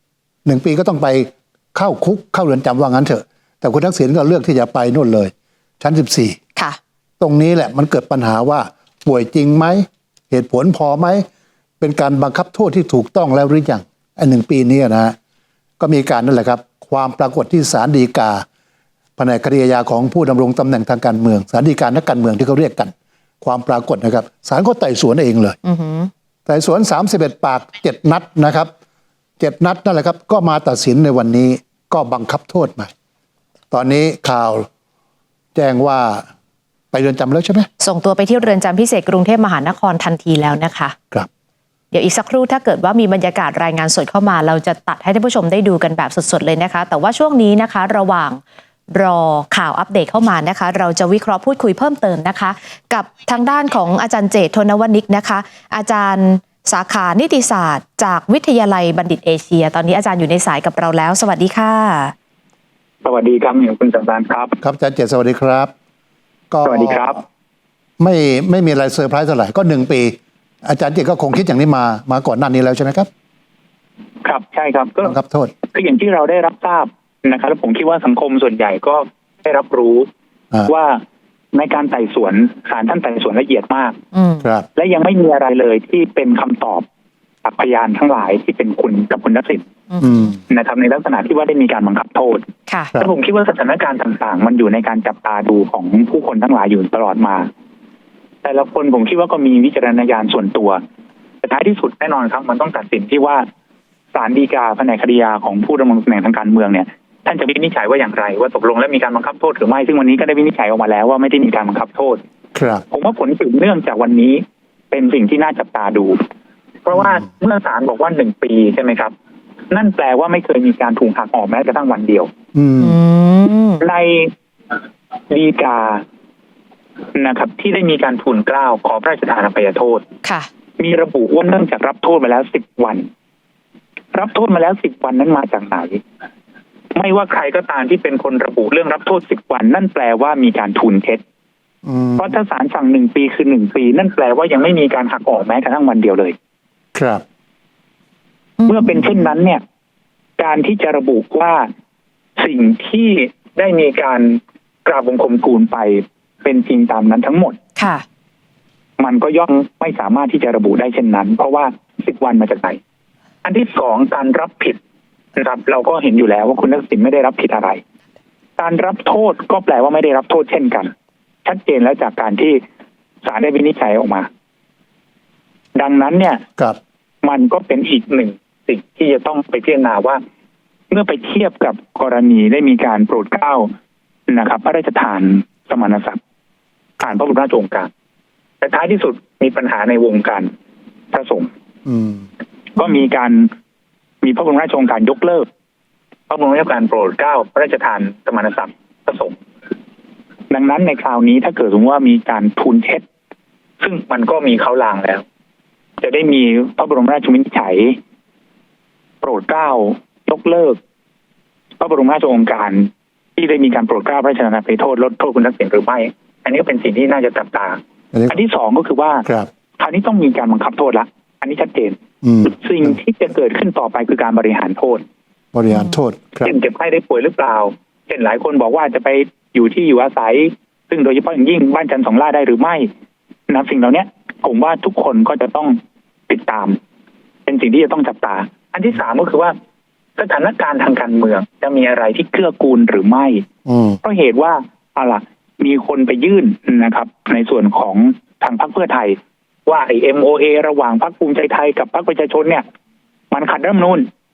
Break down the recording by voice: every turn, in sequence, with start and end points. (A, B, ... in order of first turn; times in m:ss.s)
0:00.4-0:06.4 A
0:07.2-0:11.2 A
0:11.8-0:15.2 A
0:15.8-0:18.4 A
0:19.2-0:25.6 A
0:25.6-0:26.1 B
0:26.5-0:28.7 A
0:29.4-0:32.9 A
0:33.7-0:34.7 A
0:35.5-0:36.3 A
0:36.9-0:37.7 A
0:37.8-0:41.0 B
0:41.9-0:48.4 B
0:48.9-1:02.1 B
1:03.0-1:04.6 C
1:04.6-1:05.7 A
1:06.5-1:07.2 A
1:06.6-1:07.2 C
1:08.0-1:13.1 A
1:14.2-1:15.2 C
1:15.0-1:15.5 A
1:15.7-1:20.1 C
1:20.7-1:21.0 C
1:21.5-1:23.9 C
1:24.1-1:24.4 B
1:24.4-1:24.7 A
1:24.8-1:26.8 C
1:27.4-1:29.7 C
1:29.9-1:30.3 B
1:30.0-1:30.4 A
1:30.5-1:37.5 C
1:32.7-1:32.9 B
1:38.4-1:40.8 C
1:41.4-1:43.4 C
1:44.1-1:52.2 C
1:52.5-1:52.8 A
1:52.9-1:56.2 C
1:56.8-1:59.1 C
1:59.7-2:02.3 C
2:02.5-2:03.0 A
2:02.8-2:03.8 B
2:03.8-2:04.3 C
2:05.3-2:06.0 C
2:07.1-2:10.0 C
2:10.2-2:10.5 B
2:10.8-2:13.1 C
2:14.1-2:16.0 C
2:16.9-2:21.2 C
2:21.8-2:22.3 A
2:22.2-2:26.3 C
2:26.9-2:27.2 A
2:28.7-2:29.6 C
2:30.4-2:31.7 C
2:32.4-2:37.6 C
2:37.8-2:38.0 B
2:39.0-2:42.8 C
2:43.4-2:44.8 C
2:45.4-2:47.8 C
2:48.6-2:50.9 C
2:51.4-2:52.6 C
2:53.2-2:54.3 C
2:55.7-2:56.4 C
2:57.2-3:00.2 C
3:00.9-3:03.7 C
3:04.3-3:06.2 C
3:07.0-3:07.9 C
3:08.6-3:10.5 C
3:11.1-3:11.5 C
3:11.8-3:12.2 A
3:12.8-3:13.5 C
3:14.2-3:15.4 C
3:16.3-3:19.4 C
3:20.5-3:23.0 C
3:23.8-3:25.2 C
3:26.0-3:28.0 C
3:29.2-3:30.8 C
3:31.8-3:37.8 C
3:38.3-3:39.2 C
3:39.8-3:45.0 C
3:42.2-3:42.6 A
3:45.5-3:46.5 A
3:46.4-3:52.9 C
3:53.5-3:55.8 C
3:56.3-3:56.8 C
3:57.5-3:59.5 C
4:00.2-4:03.4 C
4:03.6-4:04.0 A
4:04.0-4:12.6 C
4:13.3-4:14.1 C